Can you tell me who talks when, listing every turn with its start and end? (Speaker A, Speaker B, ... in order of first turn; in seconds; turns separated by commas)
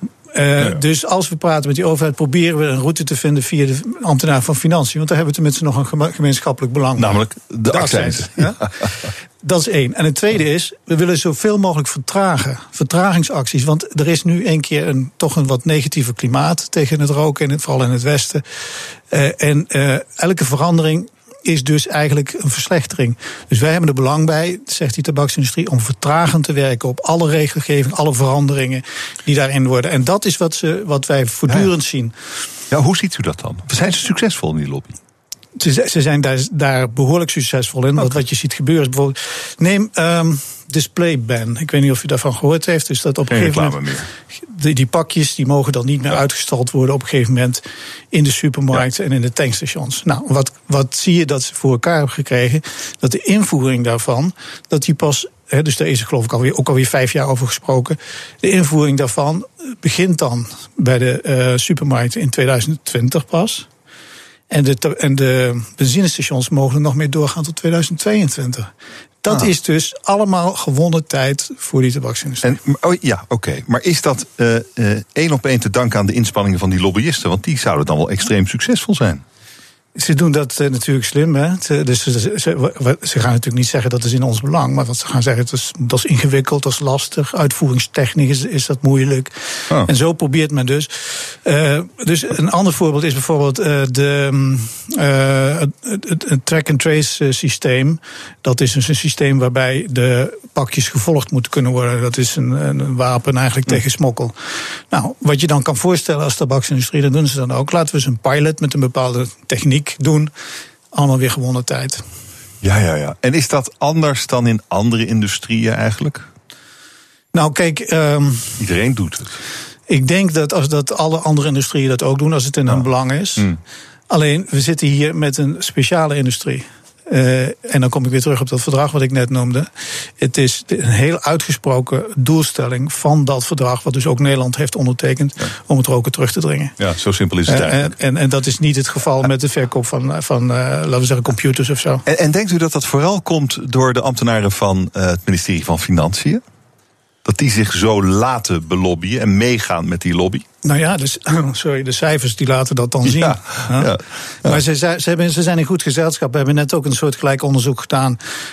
Speaker A: 0.3-8.6, Speaker B: 7.0-9.1, Speaker A: 9.4-18.4, Speaker A: 19.1-32.1, Speaker B: 32.7-35.0, Speaker A: 35.5-43.8, Speaker B: 43.3-44.1, Speaker A: 44.4-63.7, Speaker A: 64.5-68.7, Speaker A: 69.2-72.5, Speaker B: 72.4-79.2, Speaker A: 80.0-104.3, Speaker A: 104.9-110.3, Speaker A: 110.9-112.0, Speaker B: 112.6-116.3, Speaker A: 117.3-118.6, Speaker B: 118.6-119.4, Speaker A: 119.9-123.5, Speaker A: 124.1-136.7, Speaker B: 136.8-137.9, Speaker A: 137.5-142.0, Speaker B: 142.1-146.4, Speaker B: 147.2-150.4, Speaker A: 150.6-158.2, Speaker B: 153.0-154.6